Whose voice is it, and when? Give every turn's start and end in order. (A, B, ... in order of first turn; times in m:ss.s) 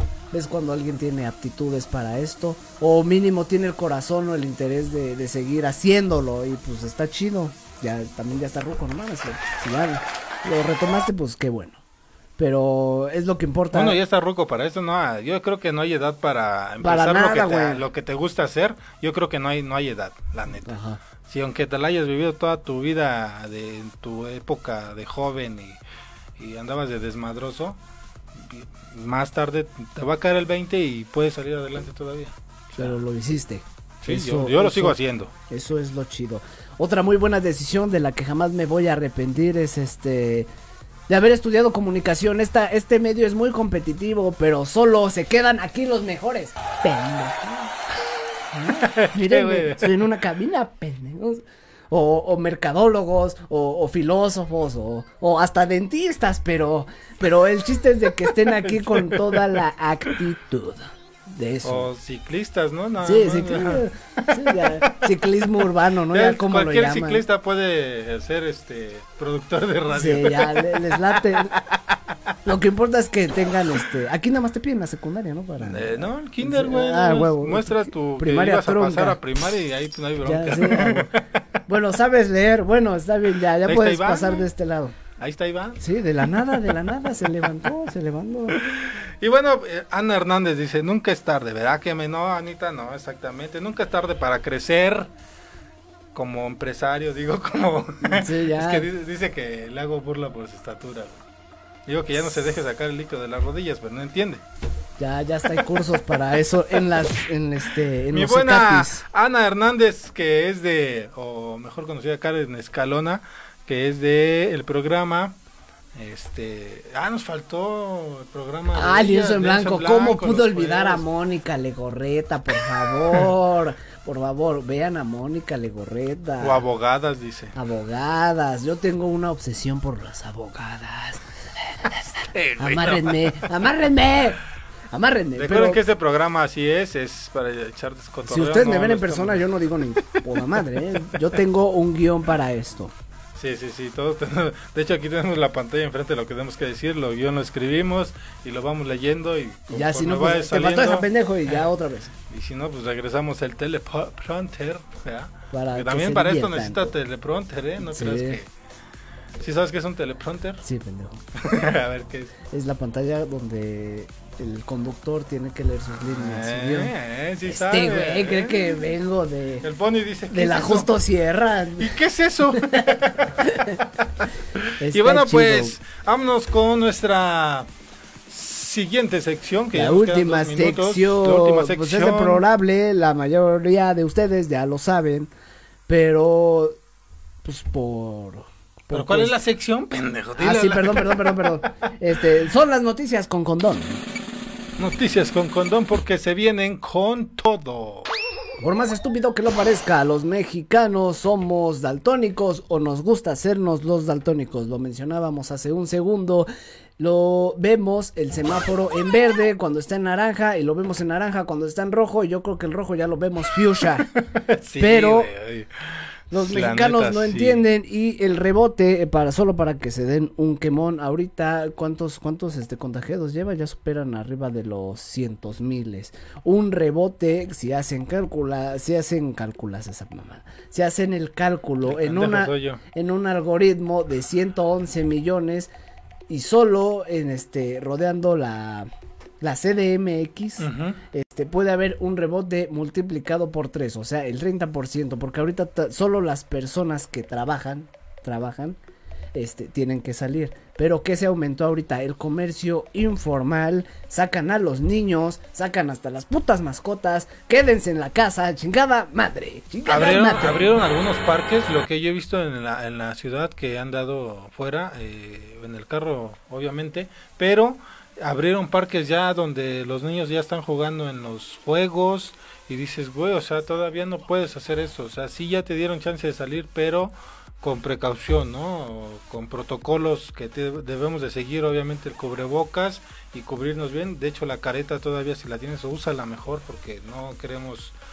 0:00.3-0:11.8 A
0:12.4-0:14.0 A
0:13.7-0:25.8 B
0:16.8-0:17.8 A
0:20.6-0:21.0 A
0:26.4-0:27.8 B
0:28.3-0:33.0 B
0:32.8-0:35.0 A
0:34.0-0:35.3 B
0:35.5-0:40.5 A
0:41.1-0:47.7 A
0:48.5-1:01.9 A
0:48.8-0:50.0 B
0:58.5-0:59.6 B
1:01.6-1:05.4 B
1:03.0-1:07.2 A
1:06.1-1:11.8 B
1:09.9-1:11.6 A
1:12.4-1:19.2 A
1:15.6-1:21.4 B
1:20.2-1:21.1 A
1:21.7-1:25.0 A
1:23.6-1:24.5 B
1:25.2-1:26.7 B
1:25.8-1:28.6 A
1:28.5-1:35.1 B
1:36.1-1:41.2 B
1:38.0-1:38.9 A
1:41.8-1:44.4 B
1:45.0-1:49.0 A
1:45.5-1:45.8 B
1:48.1-1:55.4 B
1:55.9-2:01.0 B
1:58.7-2:06.6 A
2:06.4-2:07.5 B
2:07.5-2:14.4 A
2:12.2-2:13.5 B
2:14.9-2:15.8 A
2:15.4-2:19.5 B
2:18.3-2:22.9 A
2:20.0-2:21.2 B
2:23.4-2:31.1 B
2:29.7-2:32.1 A
2:32.3-2:38.5 B
2:35.5-2:36.9 A
2:37.8-2:38.4 A
2:39.4-2:40.6 B
2:40.6-2:41.5 A
2:41.4-2:42.3 B
2:42.5-2:49.7 A
2:46.0-2:48.7 B
2:49.6-2:50.9 B
2:50.3-2:52.0 A
2:51.8-2:53.4 B
2:52.5-2:53.8 A
2:54.6-2:57.7 B
2:54.8-2:55.8 A
2:58.3-3:02.4 B
2:59.7-3:05.3 A
3:05.9-3:06.8 A
3:07.4-3:09.4 A
3:08.9-3:11.7 B
3:10.4-3:14.0 A
3:14.8-3:18.1 B
3:18.6-3:26.5 A
3:27.0-3:34.1 A
3:34.2-3:37.6 B
3:34.8-3:35.3 A
3:36.3-3:55.7 A
3:51.8-3:52.8 B
3:56.3-3:58.9 A
3:59.4-4:08.8 A
4:00.6-4:01.0 B
4:09.3-4:20.7 A
4:19.8-4:47.9 B